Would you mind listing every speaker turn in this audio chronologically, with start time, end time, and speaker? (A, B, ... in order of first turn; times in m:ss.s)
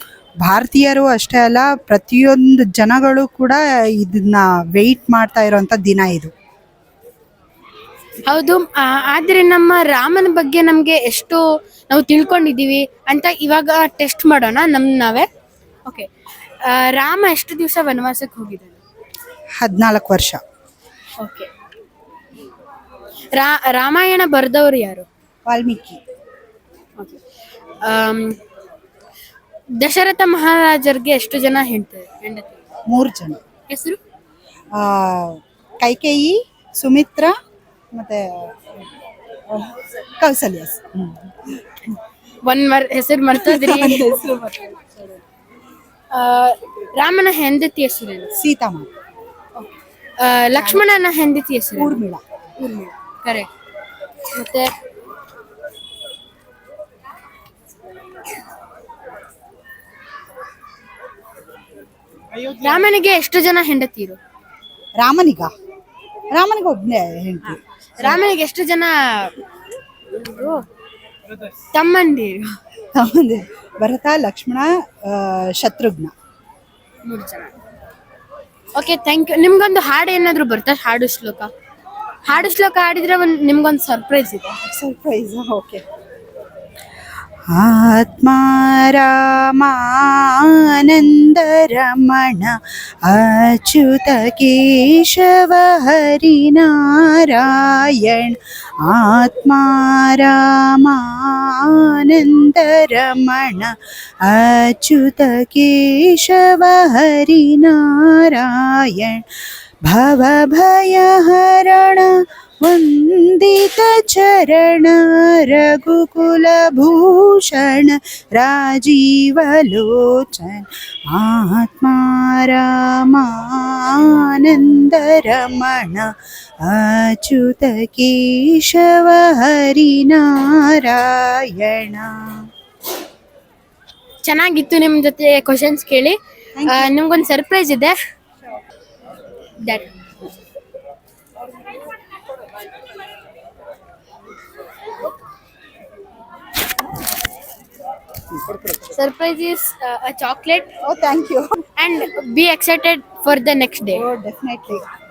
0:00.4-0:06.3 A
0:08.3-0:15.3 B
0:15.9-0:18.8 B
0:19.6-0:20.4 A
0:21.2-0:21.5 B
0:23.3-0:25.1 B
0:25.5-0:26.0 A
0:27.0-0:27.2 B
0:27.8-0:28.4 B
0:29.8-0:32.6 B
0:32.9-0:33.4 A
0:33.7-0:34.0 B
0:34.7-0:37.4 A
0:37.9-0:38.7 A
0:39.5-0:41.8 A
0:42.4-0:44.3 B
0:43.3-0:44.8 A
0:46.1-0:48.3 B
0:48.4-0:48.9 A
0:49.6-0:52.0 B
0:50.6-0:50.9 A
0:51.8-0:52.2 A
0:52.6-0:53.5 B
0:54.4-0:54.7 B
1:02.4-1:04.2 B
1:05.0-1:05.5 A
1:06.3-1:08.2 A
1:08.0-1:09.4 B
1:10.1-1:10.7 B
1:11.7-1:12.6 B
1:12.9-1:16.1 A
1:17.0-1:17.6 B
1:18.8-1:21.5 B
1:22.2-1:24.6 B
1:24.5-1:25.8 A
1:27.5-1:49.2 A
1:49.8-2:12.5 A
2:14.2-2:18.0 B
2:16.6-2:16.9 A
2:19.6-2:19.9 B
2:28.3-2:28.9 A
2:28.9-2:30.7 B
2:30.8-2:31.6 A
2:31.8-2:34.1 B
2:33.9-2:34.9 A